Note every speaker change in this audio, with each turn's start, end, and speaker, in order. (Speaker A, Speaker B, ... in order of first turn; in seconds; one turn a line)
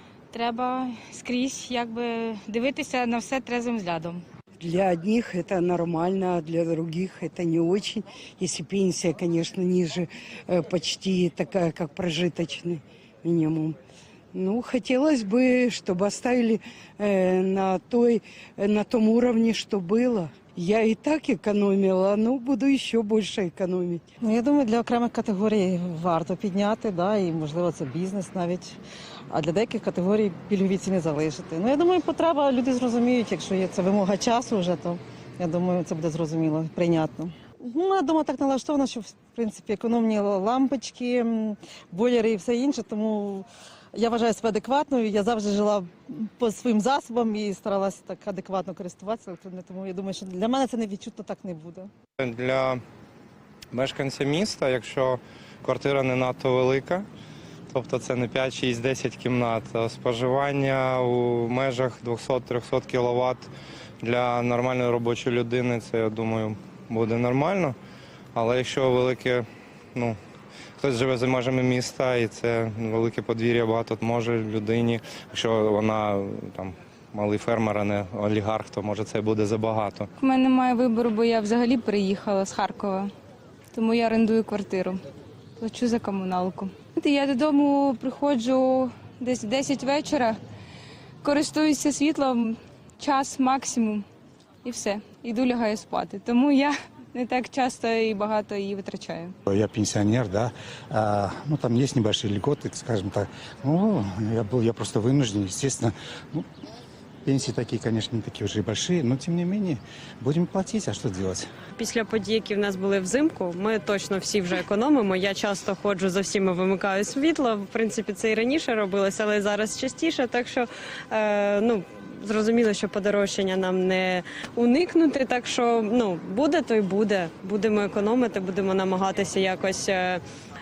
Speaker A: 0.3-4.2
Speaker B: 4.6-13.8
Speaker B: 14.3-24.0
Speaker C: 24.2-28.8
Speaker C: 29.3-51.9
Speaker D: 52.2-52.8
Speaker D: 53.7-57.1
Speaker D: 57.7-63.5
Speaker D: 64.0-67.8
Speaker D: 68.3-70.2
Speaker D: 70.8-80.1
Speaker E: 80.2-83.1
Speaker E: 83.7-85.0
Speaker E: 85.6-90.4
Speaker E: 91.2-94.0
Speaker E: 94.6-99.3
Speaker F: 99.5-106.5
Speaker F: 107.2-111.5
Speaker G: 111.8-130.2